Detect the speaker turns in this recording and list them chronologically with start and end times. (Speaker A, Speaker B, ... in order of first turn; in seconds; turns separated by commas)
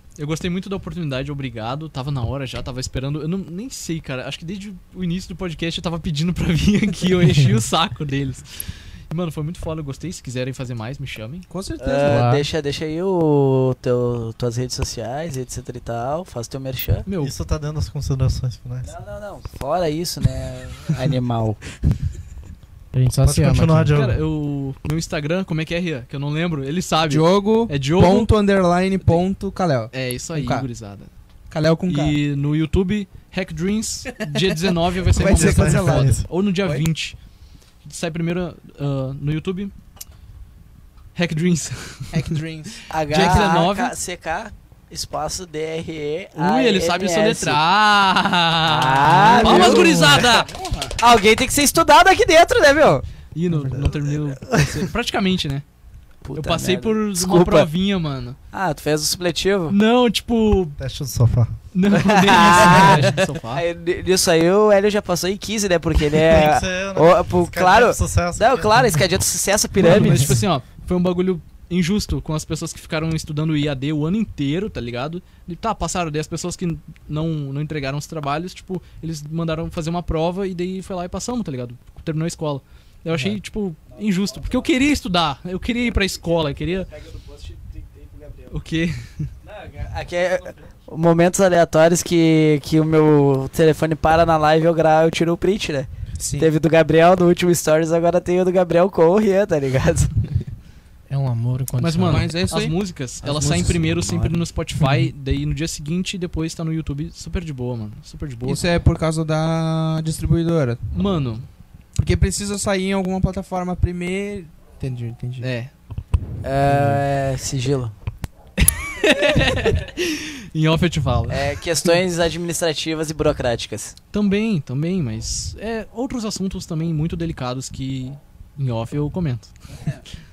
Speaker A: 0.2-11.5, Speaker B: 11.5-12.4, Speaker C: 11.8-17.1, Speaker D: 12.0-12.4, Speaker A: 17.1-17.3, Speaker E: 17.2-18.9, Speaker C: 18.8-21.6, Speaker D: 22.9-24.0, Speaker E: 23.2-24.2, Speaker A: 23.9-28.3, Speaker B: 27.1-30.7, Speaker A: 29.9-31.1, Speaker B: 31.5-32.2, Speaker A: 31.9-37.2, Speaker B: 34.2-36.9, Speaker E: 35.1-36.3, Speaker A: 37.9-39.7, Speaker A: 41.1-42.3, Speaker B: 42.1-43.5, Speaker C: 42.9-47.6, Speaker A: 43.1-44.0, Speaker A: 46.4-50.5, Speaker C: 48.7-50.2, Speaker B: 49.2-51.0, Speaker C: 51.0-53.0, Speaker A: 53.3-55.6, Speaker B: 53.5-54.0, Speaker C: 56.2-57.7, Speaker A: 56.4-58.4, Speaker C: 58.5-59.8, Speaker A: 59.7-60.8, Speaker E: 60.8-61.6, Speaker A: 61.7-63.6, Speaker C: 61.9-70.4, Speaker E: 62.7-63.1, Speaker E: 66.1-69.0, Speaker A: 69.8-86.9, Speaker E: 70.0-70.3, Speaker C: 86.9-88.5, Speaker A: 88.5-89.3, Speaker C: 89.4-100.2, Speaker B: 96.2-96.5, Speaker D: 101.1-102.3, Speaker A: 101.8-108.7, Speaker B: 102.0-105.0, Speaker B: 108.5-110.8, Speaker A: 110.9-111.5, Speaker B: 112.0-115.5, Speaker A: 115.4-115.7, Speaker C: 116.4-117.9, Speaker A: 118.6-122.0, Speaker C: 121.3-124.0, Speaker A: 124.1-129.5